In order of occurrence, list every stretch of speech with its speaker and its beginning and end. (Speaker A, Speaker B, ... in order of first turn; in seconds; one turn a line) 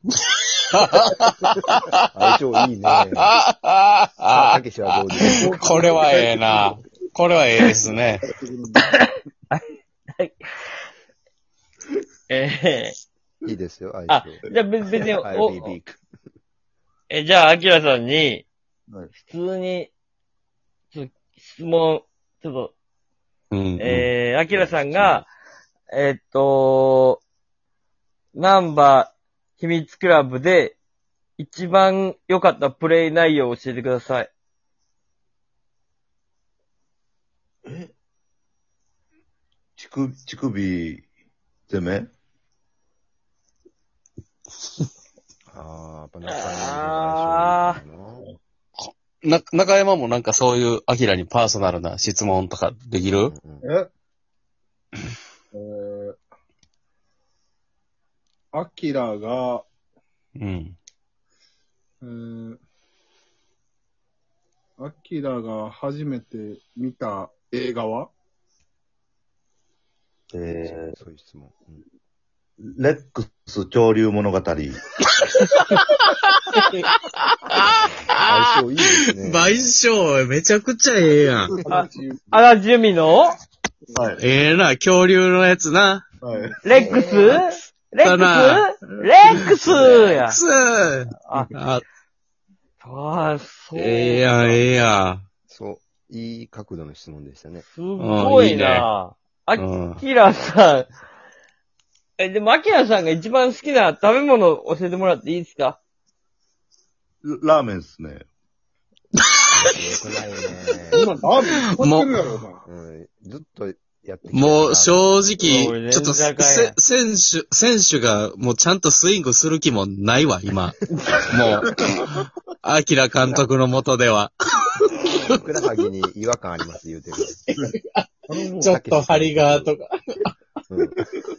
Speaker A: 0.7-2.0
Speaker B: 2.1-3.4
Speaker A: 2.9-4.5
Speaker B: 4.3-5.9
Speaker A: 5.1-8.2
Speaker C: 5.2-6.7
Speaker B: 7.8-8.2
Speaker C: 8.2-8.9
Speaker D: 8.9-9.6
Speaker D: 10.2-10.5
Speaker D: 12.3-12.9
Speaker B: 13.4-16.0
Speaker D: 14.1-15.8
Speaker D: 17.1-18.4
Speaker D: 19.2-19.9
Speaker D: 20.9-22.7
Speaker A: 23.5-24.1
Speaker D: 23.8-25.3
Speaker B: 24.5-25.2
Speaker D: 25.9-27.2
Speaker D: 28.3-30.8
Speaker D: 31.4-34.3
Speaker E: 37.6-37.9
Speaker E: 39.8-41.0
Speaker E: 41.7-42.1
Speaker B: 45.5-48.3
Speaker D: 46.3-47.8
Speaker A: 48.8-53.3
Speaker B: 53.2-53.6
Speaker C: 53.6-53.9
Speaker C: 55.5-56.2
Speaker C: 58.5-59.6
Speaker A: 60.4-60.8
Speaker C: 62.0-62.6
Speaker C: 64.8-68.1
Speaker E: 70.3-71.0
Speaker B: 70.6-71.8
Speaker E: 72.6-74.8
Speaker A: 75.2-78.3
Speaker B: 78.1-79.7
Speaker A: 79.0-81.6
Speaker E: 81.5-81.8
Speaker C: 81.7-82.2
Speaker D: 81.7-83.3
Speaker E: 83.9-84.2
Speaker A: 84.2-86.1
Speaker E: 86.2-86.8
Speaker D: 86.6-90.4
Speaker B: 86.7-87.4
Speaker A: 88.0-88.6
Speaker A: 89.7-91.8
Speaker D: 91.2-91.5
Speaker D: 92.8-94.7
Speaker A: 93.7-95.2
Speaker B: 95.5-97.7
Speaker D: 97.7-100.9
Speaker A: 98.0-98.9
Speaker A: 99.5-100.0
Speaker D: 102.2-105.8
Speaker E: 107.2-108.2
Speaker B: 109.5-111.0
Speaker C: 110.9-112.6
Speaker A: 111.8-112.3
Speaker B: 112.7-115.0
Speaker A: 114.3-124.3
Speaker D: 115.4-116.8
Speaker D: 120.9-121.2
Speaker A: 124.8-125.4
Speaker B: 125.2-127.3
Speaker A: 127.3-130.3
Speaker B: 128.3-129.7
Speaker B: 130.7-130.9